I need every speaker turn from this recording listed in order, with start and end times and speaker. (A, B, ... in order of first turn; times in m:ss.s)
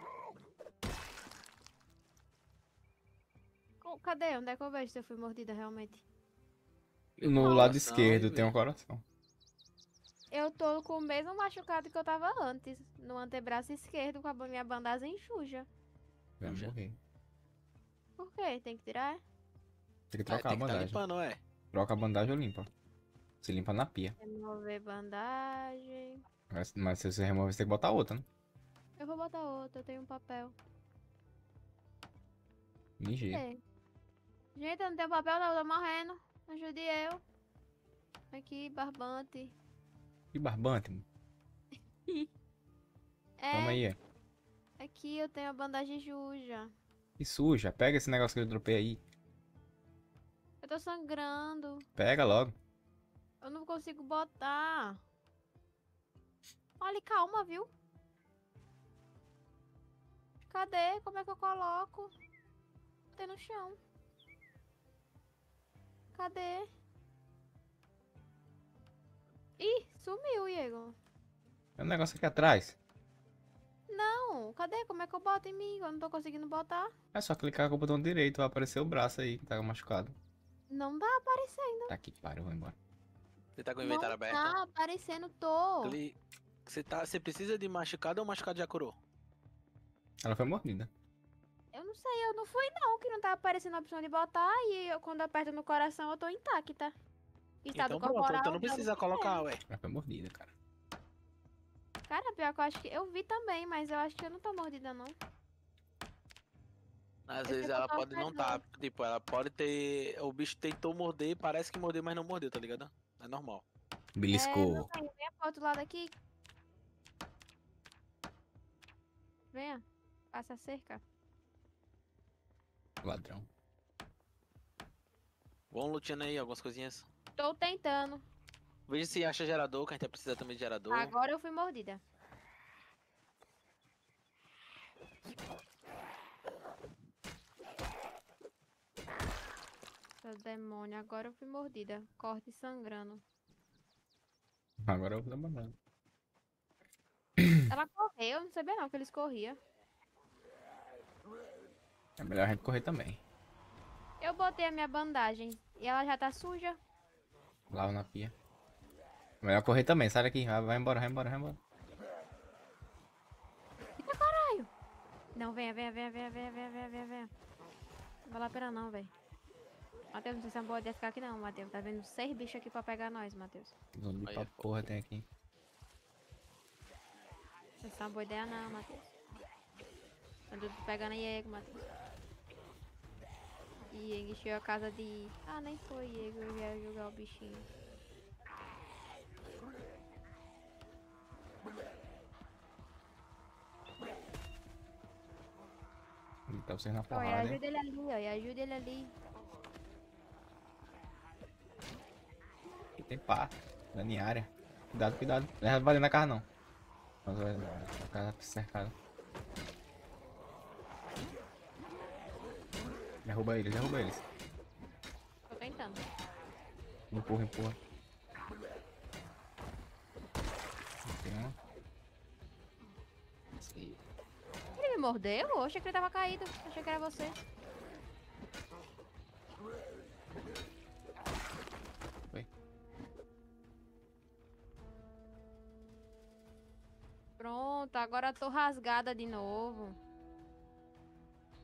0:03.8-0:06.0 A
0:07.2-0:08.5 B
0:07.2-0:09.0 C
0:07.4-0:07.7 A
0:10.3-0:15.7 A
0:16.4-0:17.0 C
0:16.4-0:16.7 B
0:18.2-0:19.2 A
0:20.1-0:21.0 C
0:20.3-0:21.4 B
0:21.7-0:22.7 C
0:23.4-0:24.2 C
0:24.2-0:26.2 A
0:26.5-0:28.2 C
0:29.0-0:30.5 A
0:33.0-0:33.4 C
0:33.3-0:33.6 A
0:34.5-0:37.2 A
0:38.3-0:39.5 A
0:40.3-0:41.0 C
0:43.4-0:43.8 A
0:43.5-0:44.0 C
0:44.8-0:46.7 A
0:47.2-0:49.0 C
0:50.6-0:51.8 A
0:52.0-0:52.5 C
0:53.4-0:55.0 A
0:56.8-0:57.7 A
1:00.5-1:02.1 A
1:03.1-1:03.8 A
1:06.1-1:06.7 A
1:09.6-1:11.0 A
1:11.8-1:12.8 C
1:13.9-1:16.9 A
1:17.1-1:20.2 C
1:20.7-1:21.9 A
1:21.9-1:22.8 C
1:23.6-1:24.5 B
1:23.8-1:26.0 A
1:25.8-1:29.0 B
1:30.2-1:30.9 C
1:31.7-1:37.0 A
1:37.6-1:39.4 A
1:37.7-1:39.6 B
1:39.7-1:40.5 C
1:42.1-1:45.2 A
1:47.3-1:53.6 B
1:47.5-1:48.6 A
1:54.2-1:54.9 C
1:54.3-1:56.1 A
1:59.5-2:01.0 A
2:03.0-2:03.5 C
2:05.7-2:07.0 B
2:07.4-2:08.2 A
2:08.9-2:11.1 B
2:10.9-2:12.0 A
2:20.2-2:23.2 A
2:24.8-2:25.8 C
2:27.4-2:27.6 C
2:27.7-2:29.6 A
2:32.2-2:33.2 C
2:34.2-2:36.8 A
2:37.7-2:38.3 C
2:39.4-2:41.6 C
2:44.0-2:44.7 A
2:45.3-2:47.3 A
2:48.2-2:49.1 A
2:50.1-2:53.7 A
2:53.9-2:55.3 C
2:54.2-2:54.7 B
2:57.8-2:59.1 A
3:00.5-3:01.8 A
3:03.9-3:07.7 A
3:16.5-3:17.6 C
3:17.1-3:19.1 A
3:23.0-3:26.4 C
3:27.2-3:28.9 C
3:33.2-3:34.2 C
3:35.5-3:36.0 A
3:37.1-3:37.8 C
3:41.0-3:41.6 C
3:43.6-3:44.0 C
3:44.8-3:47.4 A
3:57.4-4:00.0 A